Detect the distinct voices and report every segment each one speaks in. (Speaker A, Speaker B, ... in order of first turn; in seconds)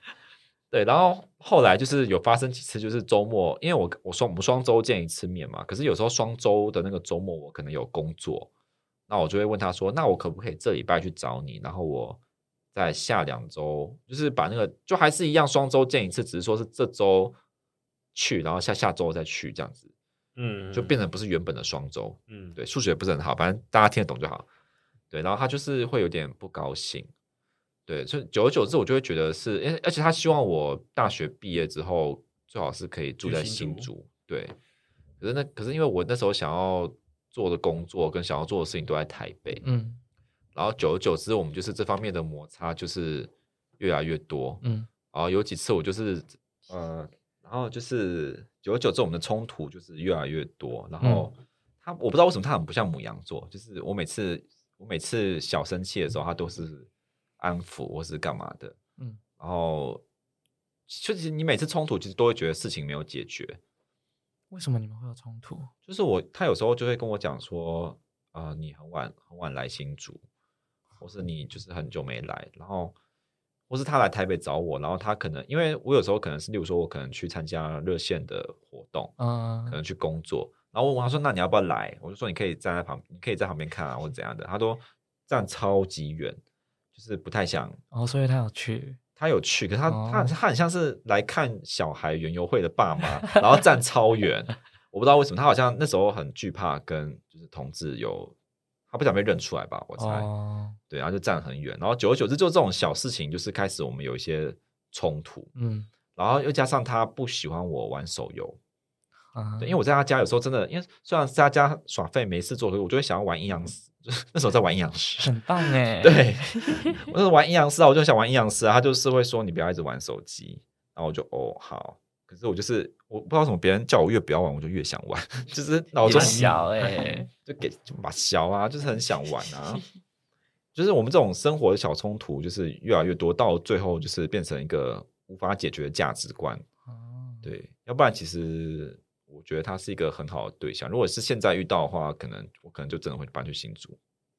Speaker A: 0.7-8.5, 9.1-12.2, 12.7-17.4, 18.1-19.9, 20.7-24.4, 25.1-27.1, 27.9-34.5, 35.2-39.6, 40.5-56.9, 57.4-58.8, 59.4-60.0, 60.9-63.6, 65.8-70.2, 71.0-72.9, 73.7-79.1, 79.7-86.4, 86.9-87.8, 89.2-98.3, 98.9-100.3, 100.9-105.5, 106.2-108.6, 109.6-126.5, 127.4-129.8, 130.7-136.6, 137.4-144.0
Speaker B: 20.4-20.9, 22.3-22.6, 33.2-33.9, 126.0-126.7
Speaker C: 39.6-40.0, 44.6-44.9, 51.0-51.3, 64.5-65.7, 79.2-79.8, 87.9-89.0, 89.9-90.3, 100.0-100.8, 105.5-105.9, 109.3-109.8, 115.2-117.0, 126.0-127.3, 136.8-137.5